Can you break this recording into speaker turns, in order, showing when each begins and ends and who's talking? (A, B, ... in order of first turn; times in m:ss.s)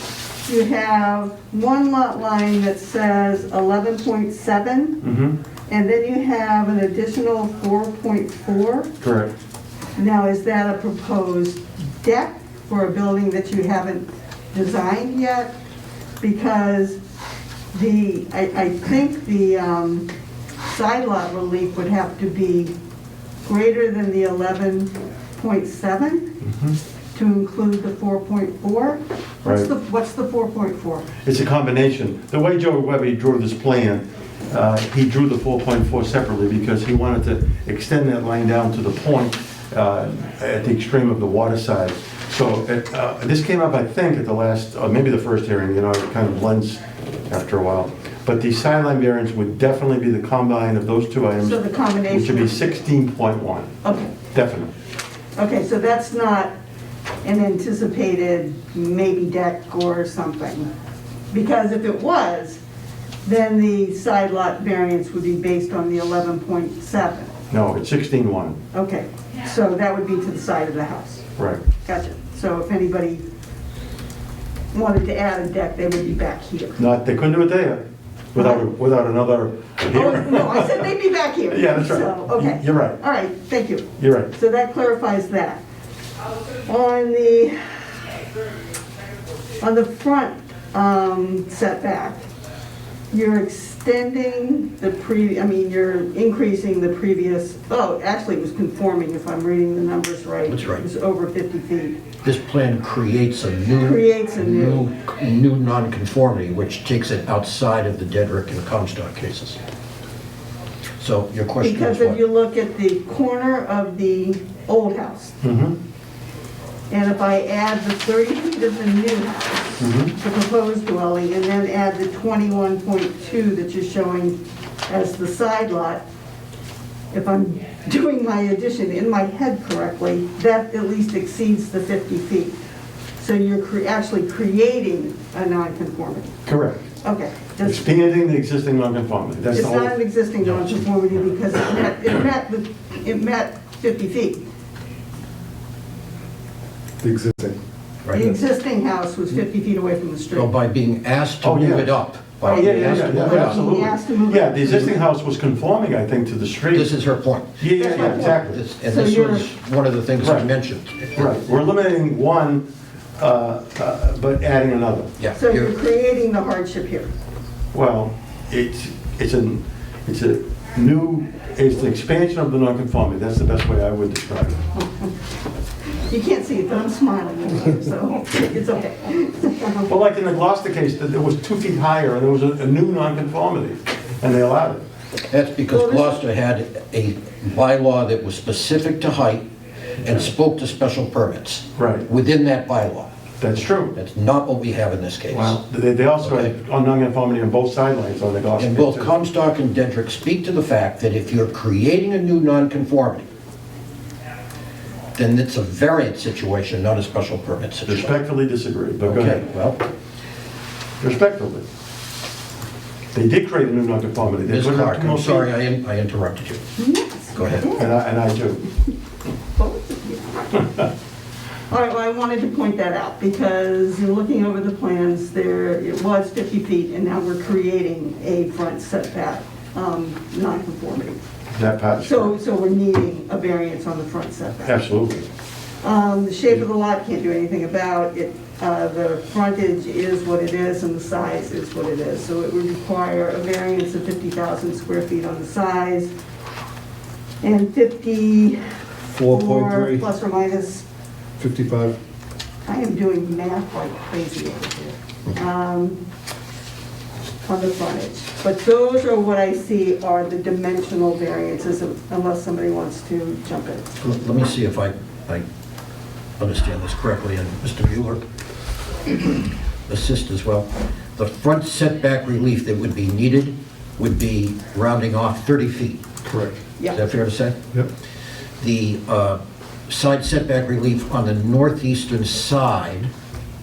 0:00.4-0:05.0 A
0:05.0-0:05.4 B
0:05.7-0:08.9 A
0:09.0-0:09.3 B
0:10.0-0:15.5 A
0:16.2-0:17.0 A
0:17.7-0:20.1 A
0:20.6-0:22.7 A
0:23.4-0:26.3 A
0:27.1-0:31.0 A
0:31.2-0:53.7 B
0:51.4-0:52.6 A
0:53.8-0:54.1 A
0:54.3-0:54.7 B
0:55.4-0:56.5 A
0:57.2-1:00.7 A
1:01.3-1:02.6 A
1:03.2-1:07.3 A
1:07.5-1:08.6 B
1:08.7-1:11.2 A
1:11.4-1:11.6 B
1:11.8-1:13.2 A
1:14.7-1:16.8 A
1:16.8-1:20.8 B
1:18.4-1:18.6 A
1:19.9-1:25.6 A
1:21.5-1:23.0 B
1:24.0-1:24.3 B
1:26.6-1:27.6 A
1:29.6-1:32.3 A
1:33.1-1:42.0 A
1:40.5-1:40.8 C
1:42.2-1:49.6 C
1:43.8-1:44.8 A
1:51.0-1:52.2 C
1:51.6-1:55.4 A
1:55.4-1:55.8 B
1:56.9-2:06.0 A
1:59.8-2:00.1 B
2:07.1-2:12.5 A
2:13.2-2:16.3 A
2:16.4-2:16.8 B
2:17.0-2:17.9 A
2:17.6-2:19.9 B
2:19.5-2:24.4 A
2:27.0-2:27.6 D
2:28.0-2:28.3 C
2:28.1-2:30.5 A
2:30.3-2:33.7 C
2:31.4-2:31.9 B
2:32.4-2:36.9 B
2:32.4-2:35.0 A
2:36.7-2:41.4 C
2:37.6-2:38.6 B
2:37.7-2:39.5 A
2:40.2-2:40.5 B
2:41.2-2:42.7 B
2:43.2-2:45.1 B
2:45.2-2:45.7 C
2:45.3-2:47.1 A
2:47.7-2:54.6 B
2:56.1-2:59.9 A
2:59.9-3:04.8 B
3:05.3-3:09.4 C
3:05.7-3:06.2 A
3:10.0-3:13.1 C
3:11.8-3:12.1 B
3:13.4-3:13.9 B
3:13.9-3:15.6 C
3:15.3-3:19.1 B
3:16.2-3:16.5 C
3:18.6-3:23.3 C
3:25.2-3:28.1 C
3:27.9-3:29.4 B
3:29.0-3:29.8 C
3:31.0-3:31.6 B
3:33.1-3:35.5 B
3:34.5-3:36.6 C
3:36.8-3:37.9 A
3:37.3-3:37.7 C
3:37.7-3:38.6 B
3:39.6-3:40.6 A
3:41.7-3:51.2 A
3:51.5-3:52.3 B
3:52.0-3:54.7 A
3:54.6-3:55.2 B
3:55.8-4:06.1 A
4:07.4-4:08.6 A
4:09.2-4:10.0 D
4:09.2-4:10.8 A
4:11.4-4:12.0 D
4:12.6-4:16.0 A
4:17.4-4:23.9 A
4:24.0-4:25.4 C
4:26.4-4:28.2 C
4:29.9-4:36.0 C
4:36.2-4:36.6 D
4:36.9-4:37.6 C
4:38.6-4:43.1 C